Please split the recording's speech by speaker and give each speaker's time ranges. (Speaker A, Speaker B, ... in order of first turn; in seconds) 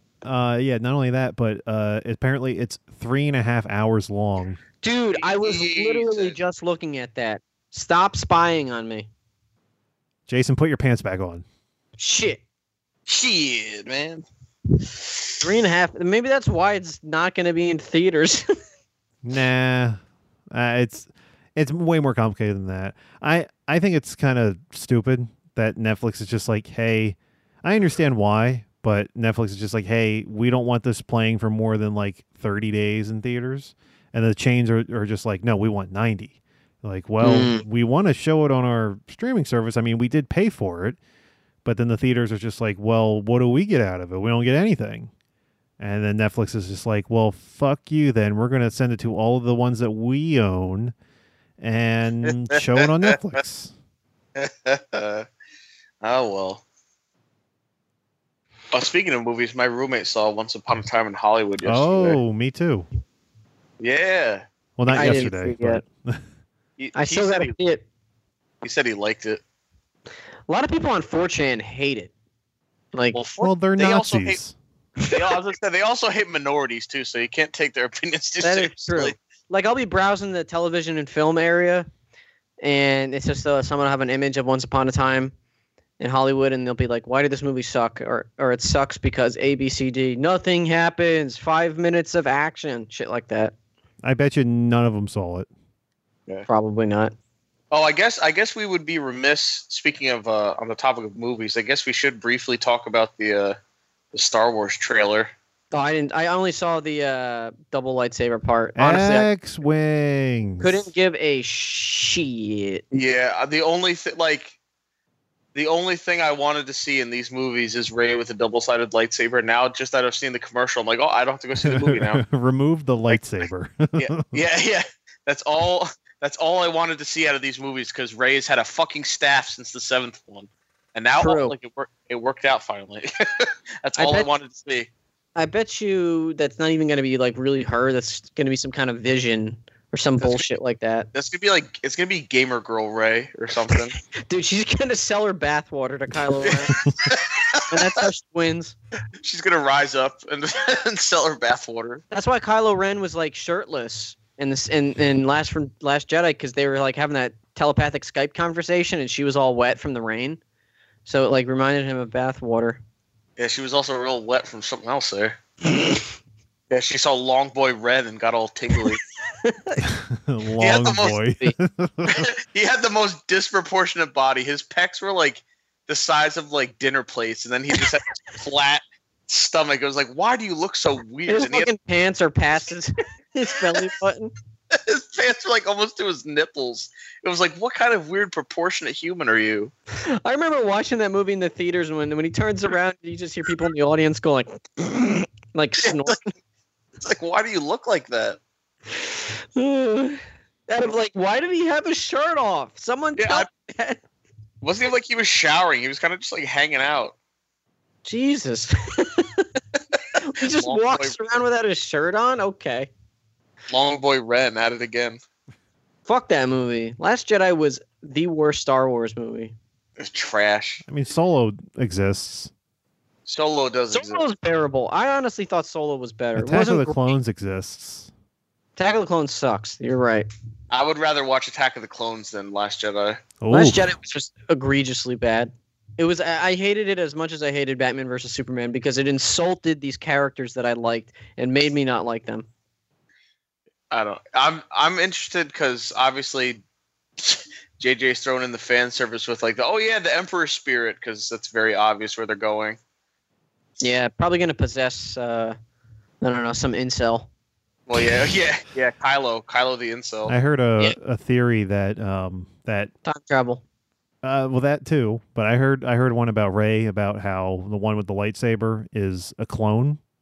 Speaker A: 0.2-4.6, 10.3-11.4, 19.2-20.0, 20.5-41.0, 41.6-45.1, 45.8-50.9, 51.6-53.7, 61.6-62.9, 64.8-66.2, 73.4-74.5, 94.0-95.5, 108.8-110.8, 121.6-124.4, 169.8-172.3, 220.8-222.5, 226.3-228.1, 233.4-233.9, 260.3-262.9, 264.2-270.0
Speaker B: 4.8-9.1, 12.0-12.4, 15.4-18.4, 37.2-37.6, 64.9-65.8, 66.9-67.8, 70.5-72.1, 72.9-73.2, 78.4-81.9, 82.6-85.3, 86.0-93.5, 96.5-97.1, 105.7-109.3, 110.6-112.8, 131.2-131.5, 133.9-134.3, 135.3-141.1, 144.1-147.1, 147.7-148.7, 152.1-160.4, 161.0-162.8, 168.9-169.8, 181.3-184.3, 190.1-196.3, 198.9-204.0, 208.0-209.6, 210.2-212.9, 216.1-219.5, 223.9-227.1, 228.8-230.3, 233.5-242.5, 253.8-255.5, 256.2-257.3, 263.0-263.6
Speaker C: 5.1-6.4, 13.1-14.2, 52.2-53.2, 54.4-55.2, 56.0-56.6, 58.7-62.2, 63.8-65.3, 66.8-67.6, 68.6-69.4, 73.1-74.4, 75.1-79.2, 97.7-103.6, 104.1-105.3, 112.9-114.5, 115.5-122.2, 123.9-134.9, 140.2-140.5, 141.1-144.0, 146.4-148.1, 149.2-152.0, 163.4-165.4, 166.7-169.0, 170.6-171.2, 172.1-181.7, 184.7-189.7, 195.8-196.2, 197.0-198.4, 203.2-203.5, 204.6-207.1, 210.4-211.4, 213.7-215.2, 220.0-220.8, 223.3-224.2, 230.7-233.2, 243.9-246.6, 247.2-252.8, 257.9-260.3